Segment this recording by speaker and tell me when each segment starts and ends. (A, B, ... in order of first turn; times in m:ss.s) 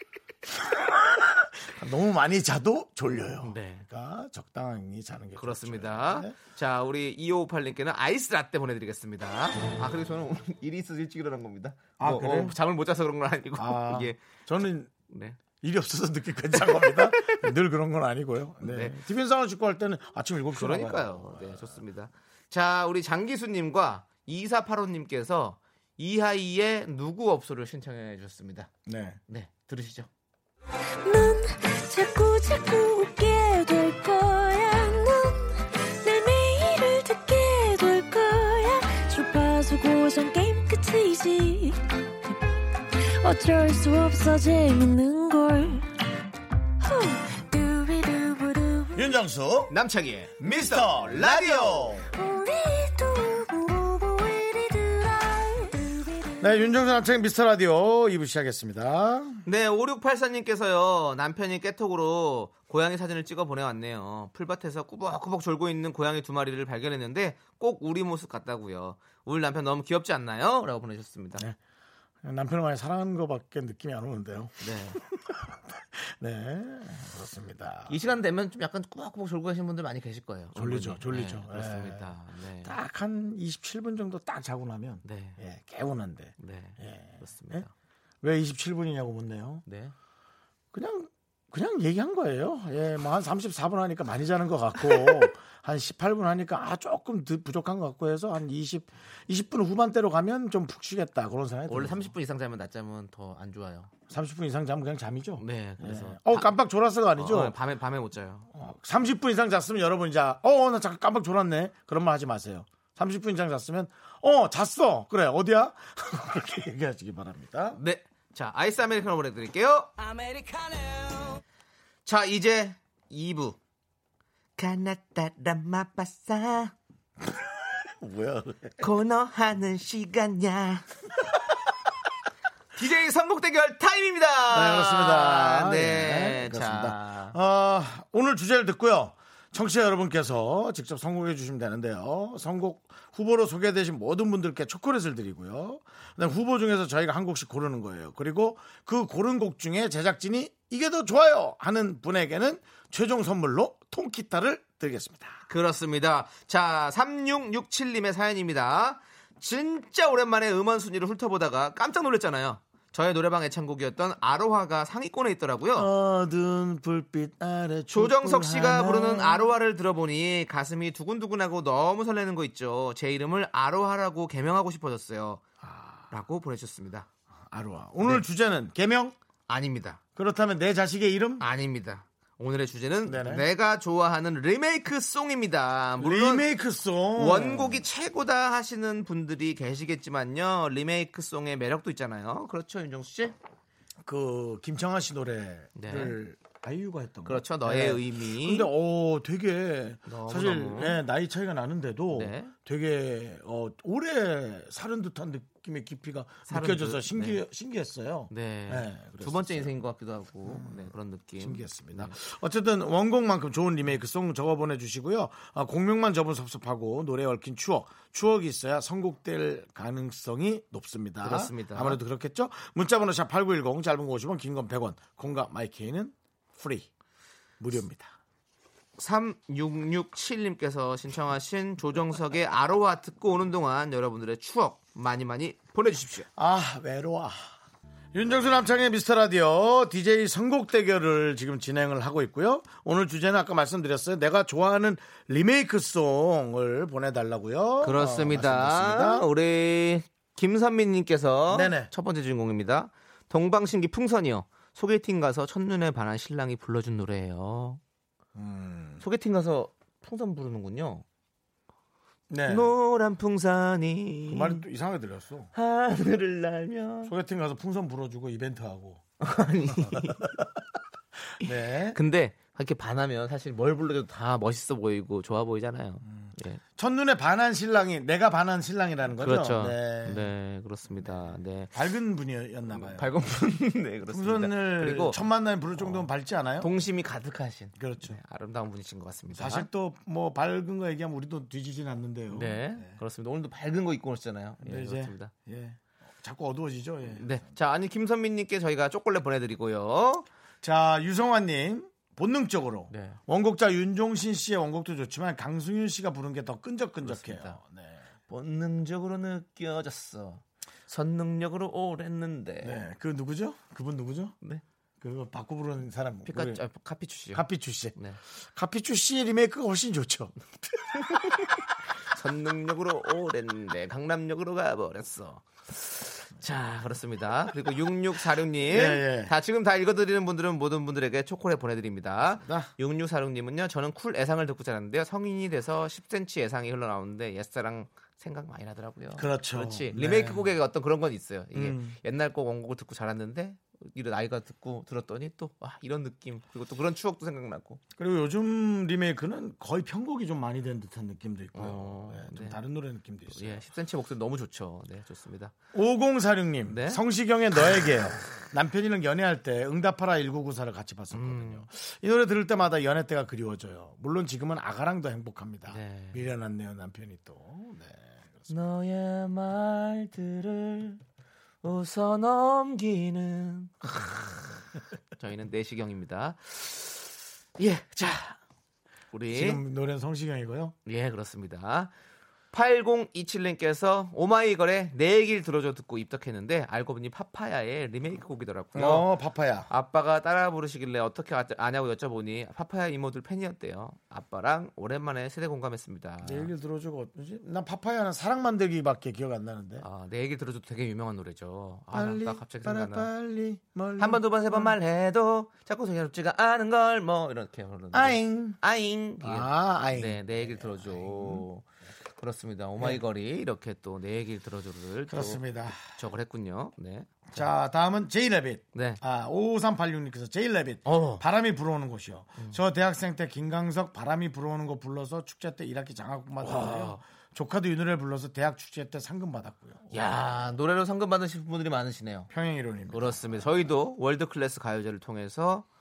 0:00.5-0:06.4 A
0:03.4-0:03.9 B
0:05.4-0:14.2 B
0:12.0-0:12.6 A
0:13.6-0:14.9 A
0:15.1-0:15.4 B
0:15.6-0:21.8 A
0:16.6-0:17.5 B
0:18.6-0:19.0 B
0:20.5-0:28.7 B
0:28.9-0:29.2 A
0:29.3-0:30.1 B
0:31.0-0:42.3 C
0:42.9-0:45.9 C
0:46.8-0:49.0 C
0:49.0-0:49.8 A
0:49.7-0:52.0 B
0:50.4-0:52.1 A
0:52.1-0:56.6 C
0:56.4-0:59.4 A
0:59.5-1:11.4 B
1:12.2-1:18.0 A
1:14.6-1:15.0 B
1:17.9-1:22.8 B
1:20.5-1:27.6 A
1:25.0-1:25.4 B
1:26.4-1:27.7 B
1:28.2-1:29.6 A
1:29.7-1:30.0 B
1:30.7-1:42.1 A
1:41.7-1:43.9 B
1:44.1-1:47.6 A
1:45.4-1:46.6 B
1:47.2-1:48.5 B
1:48.5-1:57.8 A
1:57.8-1:59.9 B
2:02.1-2:03.6 B
2:04.6-2:06.7 B
2:07.3-2:08.8 A
2:08.8-2:10.9 B
2:12.8-2:17.4 B
2:14.5-2:35.4 A
2:35.5-2:45.9 B
2:45.8-2:49.5 A
2:47.9-2:55.4 B
2:55.6-2:56.1 A
2:56.1-2:57.1 B
2:57.5-2:59.2 A
2:59.5-3:00.0 B
3:00.2-3:01.5 A
3:01.4-3:06.5 B
3:03.1-3:03.4 A
3:06.0-3:07.8 A
3:07.2-3:13.4 B
3:14.0-3:29.8 A
3:15.8-3:16.2 B
3:17.3-3:18.7 B
3:20.1-3:21.0 B
3:22.1-3:22.5 B
3:26.5-3:27.4 B
3:28.3-3:32.2 B
3:30.4-3:46.9 A
3:41.2-3:42.0 B
3:47.6-3:48.1 A
3:49.0-3:56.3 B
3:56.4-3:57.5 A
3:58.1-4:09.3 A
4:07.8-4:17.8 B
4:11.5-4:11.9 A
4:18.4-4:19.0 A
4:19.0-4:21.0 B
4:22.3-4:22.7 A
4:22.5-4:24.6 B
4:24.3-4:25.5 A
4:25.5-4:27.1 B
4:27.0-4:29.0 A
4:29.2-4:30.3 B
4:29.7-4:30.4 A
4:31.4-4:32.0 A
4:31.9-4:36.6 B
4:36.0-4:40.3 A
4:39.2-4:41.7 B
4:41.0-4:43.1 A
4:42.7-4:45.2 B
4:44.1-4:46.7 A
4:45.8-4:46.1 B
4:46.6-4:49.7 B
4:47.8-4:48.2 A
4:49.3-4:53.0 A
4:52.3-4:55.3 B
4:54.6-4:57.5 A
4:57.1-5:00.3 B
5:00.6-5:08.0 A
5:02.9-5:03.2 B
5:07.0-5:07.6 B
5:08.3-5:12.8 B
5:12.6-5:14.4 A
5:15.0-5:16.6 A
5:16.3-5:18.2 B
5:17.3-5:18.0 A
5:18.6-5:20.4 A
5:22.1-5:47.8 B
5:28.7-5:29.3 A
5:32.4-5:32.7 A
5:39.2-5:40.5 A
5:41.5-5:42.0 A
5:48.0-5:53.6 A
5:51.6-5:52.6 B
5:53.3-5:55.5 B
5:55.7-6:08.5 A
5:56.7-5:57.0 B
6:01.1-6:01.7 B
6:05.7-6:06.2 B
6:08.5-6:11.0 B
6:11.6-6:13.9 B
6:15.2-6:18.4 B
6:19.1-6:19.6 B
6:19.3-6:20.8 A
6:20.9-6:21.9 B
6:22.5-6:29.1 B
6:28.7-6:29.7 A
6:29.7-6:36.5 B
6:36.2-6:39.9 A
6:39.8-6:43.1 B
6:41.9-6:44.8 A
6:44.0-6:51.7 B
6:47.9-6:48.6 A
6:49.2-6:51.5 A
6:52.2-6:57.5 B
6:55.1-6:55.8 A
6:57.3-7:10.5 A
6:58.7-6:59.0 B
7:00.9-7:01.2 B
7:06.4-7:07.0 B
7:09.9-7:12.3 B
7:12.3-7:13.5 A
7:12.9-7:15.7 B